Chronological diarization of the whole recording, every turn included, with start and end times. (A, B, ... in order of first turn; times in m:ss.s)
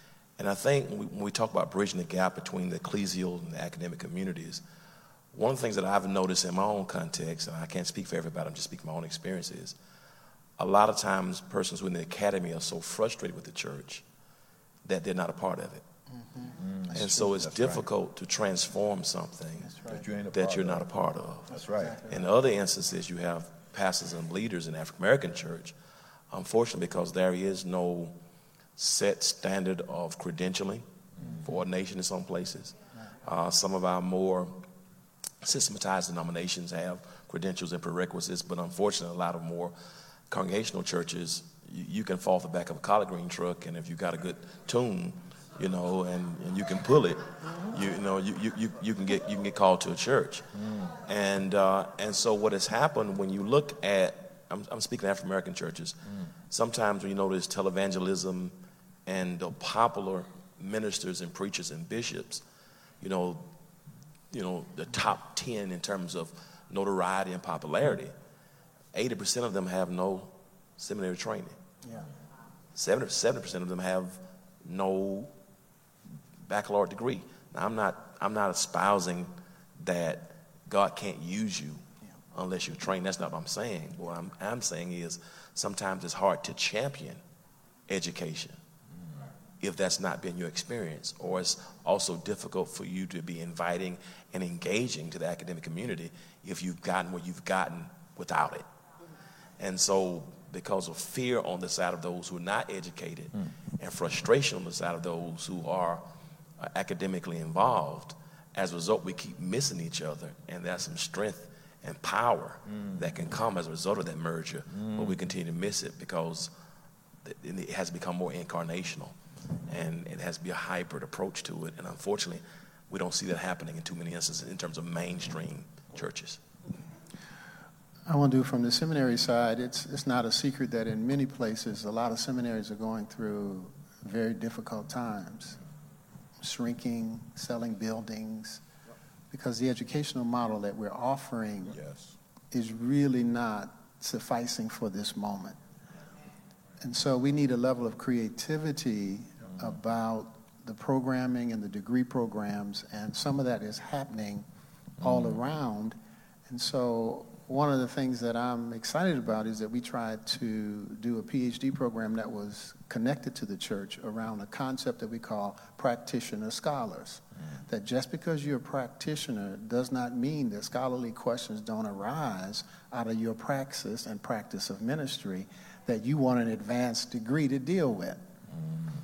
0:00.4-0:04.6 A
0:05.3-0:09.8 A
0:10.6-0:14.0 A
0:14.8-0:15.8 A
0:16.2-0:16.6 B
0:16.6-0:17.9 C
0:16.9-0:19.8 A
0:19.6-0:20.0 B
0:19.9-0:20.9 C
0:20.3-0:25.8 A
0:21.5-0:22.0 C
0:21.7-0:22.2 B
0:26.3-0:28.2 A
0:28.8-0:30.8 A
0:31.2-0:31.5 C
0:31.4-0:34.7 A
0:35.4-0:39.8 A
0:40.3-0:50.5 A
0:51.1-0:56.0 A
0:56.5-0:58.6 A
0:59.1-1:02.4 A
1:03.0-1:03.5 A
1:04.3-1:08.1 A
1:08.9-1:11.6 A
1:11.8-1:12.1 B
1:12.8-1:15.3 A
1:16.5-1:27.2 A
1:27.9-1:28.6 A
1:29.6-1:38.7 A
1:39.6-1:46.0 A
1:46.6-1:56.5 A
1:57.2-1:59.2 A
1:59.7-2:06.4 A
2:08.1-2:15.6 B
2:16.4-2:18.6 B
2:19.3-2:21.8 B
2:21.7-2:22.2 C
2:22.5-2:25.6 B
2:26.8-2:34.5 B
2:35.0-2:35.4 C
2:35.0-2:36.0 B
2:36.5-2:58.2 B
2:58.7-2:58.9 C